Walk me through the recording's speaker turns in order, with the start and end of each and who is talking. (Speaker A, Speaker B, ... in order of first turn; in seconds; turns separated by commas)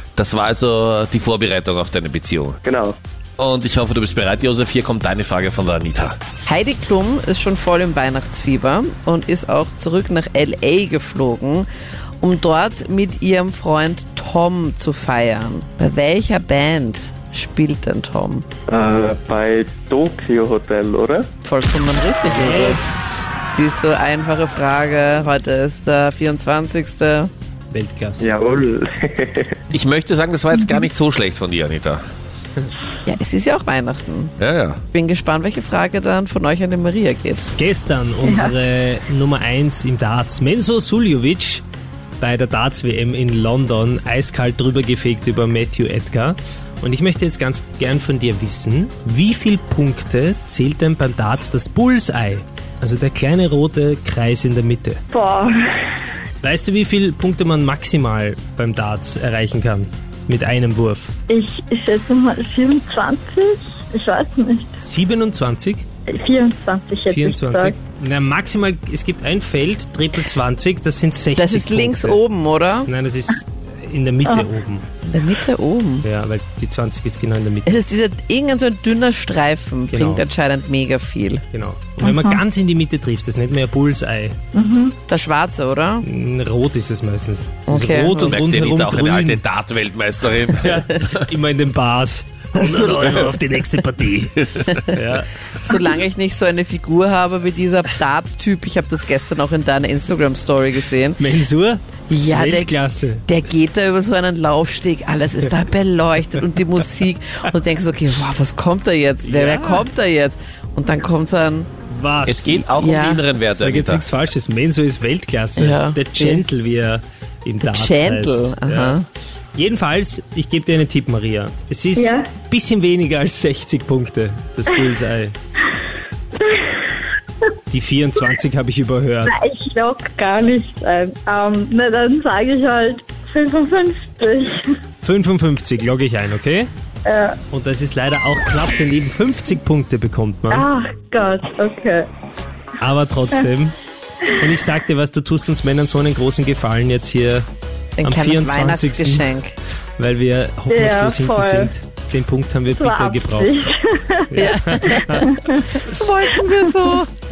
Speaker A: 0.2-2.6, Speaker B: 2.6-2.9, Speaker A: 3.4-6.2, Speaker C: 6.5-11.7, Speaker C: 12.2-18.4, Speaker B: 18.7-21.3, Speaker C: 21.4-27.3, Speaker D: 22.4-23.2, Speaker D: 27.7-28.2, Speaker B: 28.2-29.6, Speaker A: 29.7-32.0, Speaker E: 30.6-30.8, Speaker C: 33.1-34.3, Speaker A: 34.4-34.8, Speaker C: 34.9-37.4, Speaker D: 37.6-41.6, Speaker E: 38.2-38.5, Speaker D: 42.2-55.0, Speaker E: 55.1-55.9, Speaker D: 56.4-61.1, Speaker E: 61.3-64.8, Speaker D: 64.8-65.8, Speaker E: 66.1-67.8, Speaker D: 67.1-72.2, Speaker C: 71.3-72.9, Speaker D: 72.8-74.8, Speaker C: 75.1-76.1, Speaker D: 76.0-77.7, Speaker C: 77.7-81.4, Speaker D: 79.9-80.2, Speaker D: 81.5-84.4, Speaker E: 82.0-82.4, Speaker E: 84.5-85.0, Speaker C: 85.1-86.1, Speaker D: 86.0-89.4, Speaker C: 87.7-88.4, Speaker A: 88.2-91.2, Speaker D: 90.6-95.3, Speaker C: 95.6-101.2, Speaker D: 101.2-103.2, Speaker C: 102.1-111.7, Speaker D: 109.2-109.8, Speaker D: 111.9-112.6, Speaker A: 112.2-114.0, Speaker C: 112.6-113.2, Speaker D: 113.5-119.0, Speaker C: 115.6-116.4, Speaker C: 117.6-119.0, Speaker D: 119.5-125.3, Speaker E: 122.0-122.3, Speaker E: 126.5-126.8, Speaker D: 127.7-129.3, Speaker E: 129.3-134.7, Speaker D: 135.0-136.7, Speaker E: 137.0-137.4, Speaker D: 137.5-140.7, Speaker E: 140.5-142.1, Speaker D: 142.8-143.8, Speaker D: 144.3-147.5, Speaker C: 147.9-149.5, Speaker D: 148.0-149.3, Speaker D: 150.0-153.5, Speaker E: 150.7-151.7, Speaker E: 152.8-155.8, Speaker D: 154.3-155.2, Speaker C: 154.3-157.1